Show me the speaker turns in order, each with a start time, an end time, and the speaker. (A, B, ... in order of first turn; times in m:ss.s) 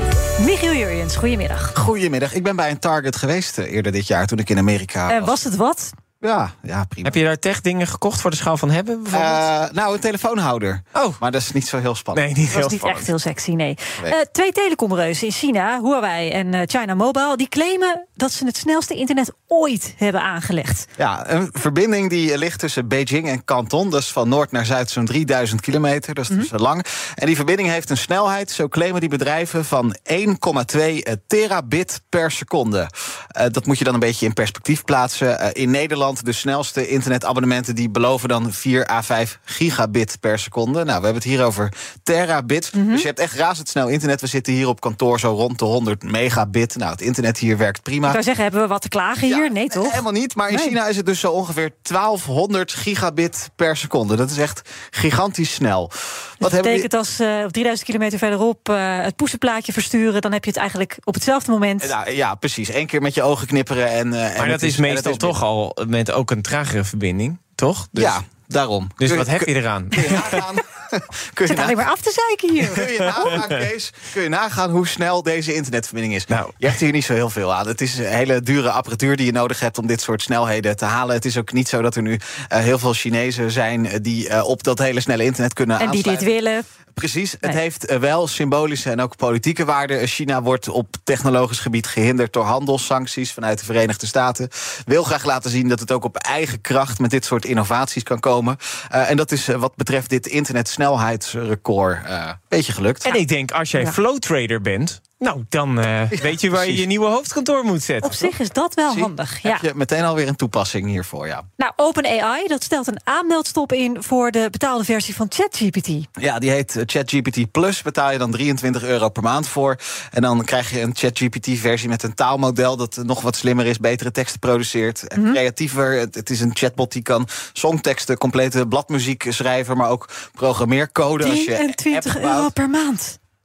0:00.4-0:01.7 A
0:01.7-0:05.4 B
0:05.1-0:05.9 A
0:06.2-0:07.2 B
0:07.0-0:09.4 C
0:09.1-0:12.2 B
0:12.1-0:13.1 C
0:12.5-0:20.9 A
0:21.0-0:48.2 B
0:42.7-0:43.1 A
0:48.1-0:50.8 A
0:49.3-0:56.9 B
0:56.4-1:01.9 A
1:01.8-1:05.4 B
1:04.4-1:08.2 C
1:07.9-1:11.8 B
1:09.0-1:10.5 C
1:11.4-1:13.3 A
1:12.6-1:26.3 B
1:16.3-1:16.7 C
1:25.8-1:26.6 A
1:26.9-1:43.1 B
1:43.0-1:48.3 C
1:46.2-1:46.8 B
1:48.0-1:49.6 A
1:48.9-1:51.4 B
1:51.6-1:56.1 A
1:56.2-2:12.5 B
2:11.2-2:13.2 A